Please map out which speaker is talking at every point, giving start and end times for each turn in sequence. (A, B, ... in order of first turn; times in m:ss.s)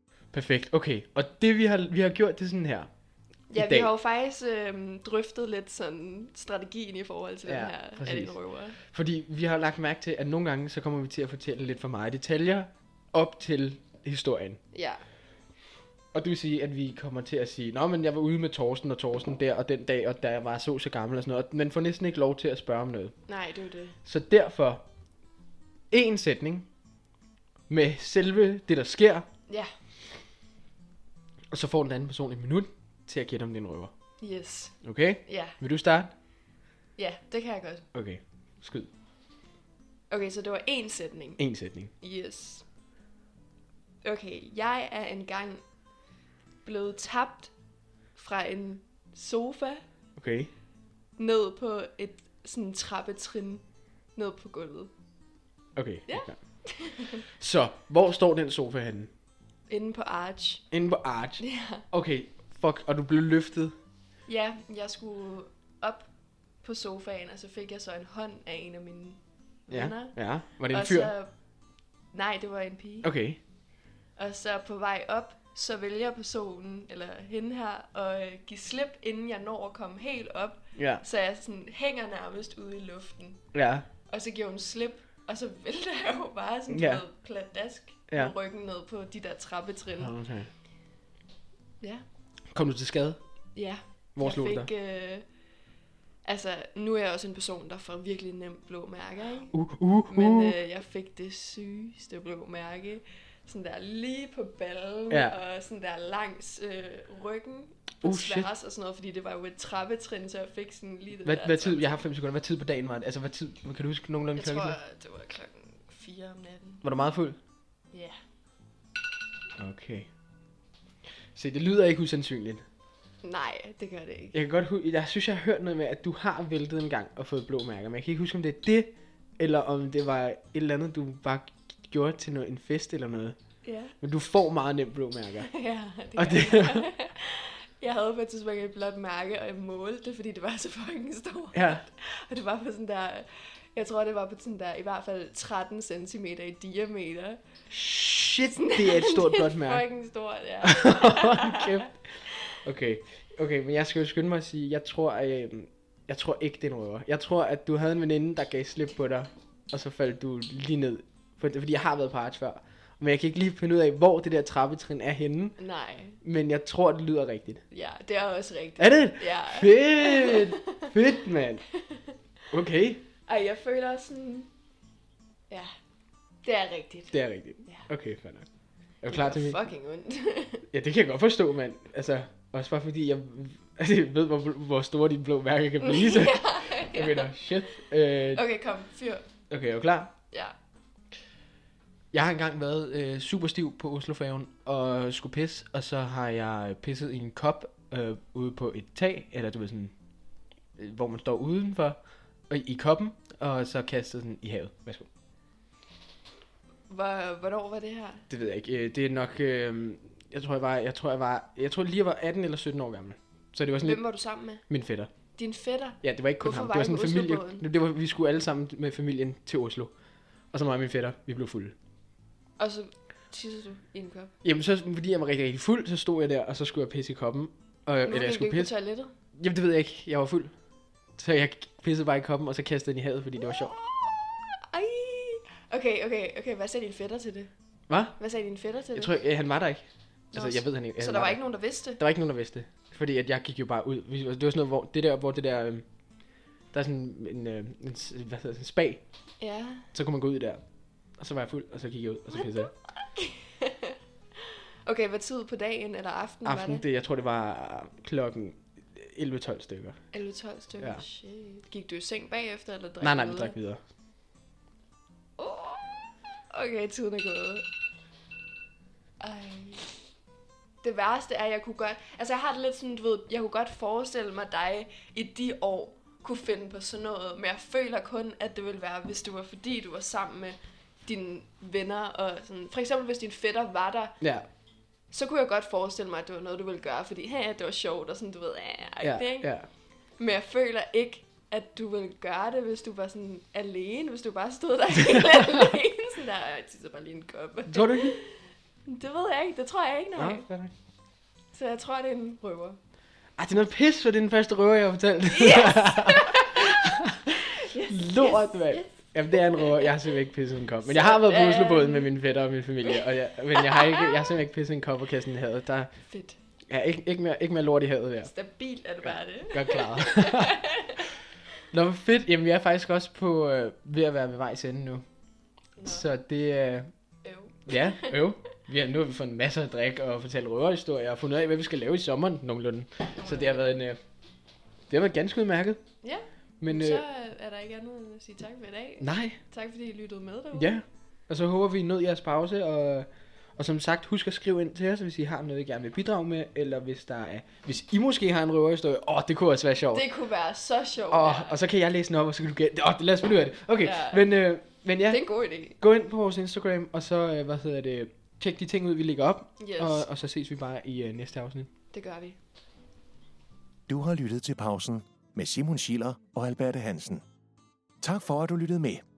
0:00.3-0:02.9 A
0:03.5-0:08.8 B
0:03.6-0:03.9 A
0:07.5-0:14.6 A
0:14.7-0:15.0 B
0:16.1-0:23.2 A
0:23.3-0:24.0 B
0:24.0-0:24.8 A
0:25.9-0:26.7 A
0:27.7-0:29.3 A
0:31.5-0:33.9 A
0:34.2-0:35.6 B
0:34.8-0:36.1 A
0:37.0-0:37.9 B
0:37.9-0:38.9 A
0:40.1-0:41.4 B
0:41.4-0:41.9 A
0:42.0-0:42.7 B
0:44.0-0:45.6 B
0:46.6-0:47.5 B
0:48.2-0:49.8 B
0:50.2-0:50.5 A
0:51.2-0:54.9 B
0:55.8-0:59.1 A
0:56.1-0:57.2 B
0:59.7-1:00.7 B
1:00.7-1:03.8 A
1:01.4-1:01.8 B
1:04.3-1:11.4 B
1:09.7-1:11.1 A
1:12.1-1:13.1 B
1:13.0-1:13.4 A
1:14.2-1:23.5 B
1:20.8-1:21.0 A
1:23.5-1:23.9 A
1:24.1-1:30.1 B
1:26.7-1:27.0 A
1:30.0-1:30.5 A
1:32.5-1:33.2 A
1:33.6-1:35.3 B
1:34.2-1:34.7 A
1:36.2-1:52.0 B
1:39.5-1:40.6 A
1:45.1-1:45.4 A
1:48.0-1:48.5 A
1:51.2-1:54.8 A
1:54.4-1:56.8 B
1:56.8-1:57.4 A
1:57.9-1:58.2 B
1:59.6-2:00.1 A
2:01.3-2:02.6 A
2:03.2-2:04.4 B
2:04.3-2:13.4 A
2:13.6-2:13.9 B
2:14.0-2:15.5 A
2:15.5-2:27.4 B
2:16.2-2:16.9 A
2:21.5-2:21.8 A
2:27.7-2:29.8 A
2:28.6-2:32.3 B
2:30.6-2:32.0 A
2:32.5-2:45.6 A
2:45.6-2:46.2 B
2:46.2-2:47.6 A
2:47.7-2:50.9 B
2:48.8-2:51.6 A
2:52.5-2:53.0 A
2:53.3-2:54.5 B
2:56.4-2:57.9 B
2:57.1-2:58.5 A
2:59.0-2:59.6 A
2:59.1-3:00.7 B
3:00.7-3:08.4 A
3:05.8-3:07.3 B
3:08.3-3:09.3 B
3:09.5-3:10.1 A
3:12.1-3:19.9 A
3:20.8-3:25.1 A
3:26.9-3:28.3 B
3:28.3-3:34.0 A
3:33.8-3:34.6 B
3:34.7-3:35.1 A
3:35.4-3:37.6 B
3:36.0-3:39.9 A
3:40.5-3:41.8 A
3:42.6-3:44.3 B
3:44.4-3:48.7 A
3:48.1-3:49.1 B
3:49.2-3:50.5 A
3:51.2-3:53.8 A
3:53.6-3:57.5 B
3:57.9-3:58.2 A
3:58.1-3:59.2 B
3:58.9-4:05.9 A
4:00.3-4:02.0 B
4:06.7-4:09.0 A
4:09.4-4:09.9 B
4:09.9-4:10.6 A
4:11.2-4:12.7 A
4:12.3-4:16.8 B
4:16.4-4:20.0 A
4:20.1-4:23.6 B
4:23.0-4:23.8 A
4:25.4-4:25.9 B
4:26.5-4:27.7 B
4:29.2-4:30.0 B
4:30.8-4:44.2 B
4:44.2-4:44.5 A
4:45.1-4:49.5 B
4:49.0-4:49.7 A
4:50.2-5:00.5 B
4:57.7-4:58.2 A
5:00.2-5:00.7 A
5:01.5-5:02.8 B
5:03.4-5:15.9 A
5:05.3-5:06.8 B
5:07.5-5:10.1 B
5:10.8-5:12.1 B
5:13.6-5:14.1 B
5:16.1-5:16.4 B
5:16.7-5:18.3 A
5:18.2-5:21.1 B
5:19.0-5:20.7 A
5:21.7-5:25.0 A
5:25.8-5:26.1 B
5:25.8-5:26.9 A
5:27.2-5:28.2 B
5:27.7-5:34.0 A
5:33.2-5:33.8 B
5:34.9-5:35.8 A
5:36.0-5:40.8 B
5:36.6-5:37.0 A
5:39.0-5:39.4 A
5:40.5-5:50.1 A
5:49.9-5:51.6 B
5:51.1-5:55.2 A
5:53.8-5:54.3 B
5:55.0-5:55.8 B
5:55.8-6:01.7 A
5:59.6-6:00.1 B
6:01.9-6:02.4 B
6:03.9-6:07.2 C
6:08.0-6:09.0 C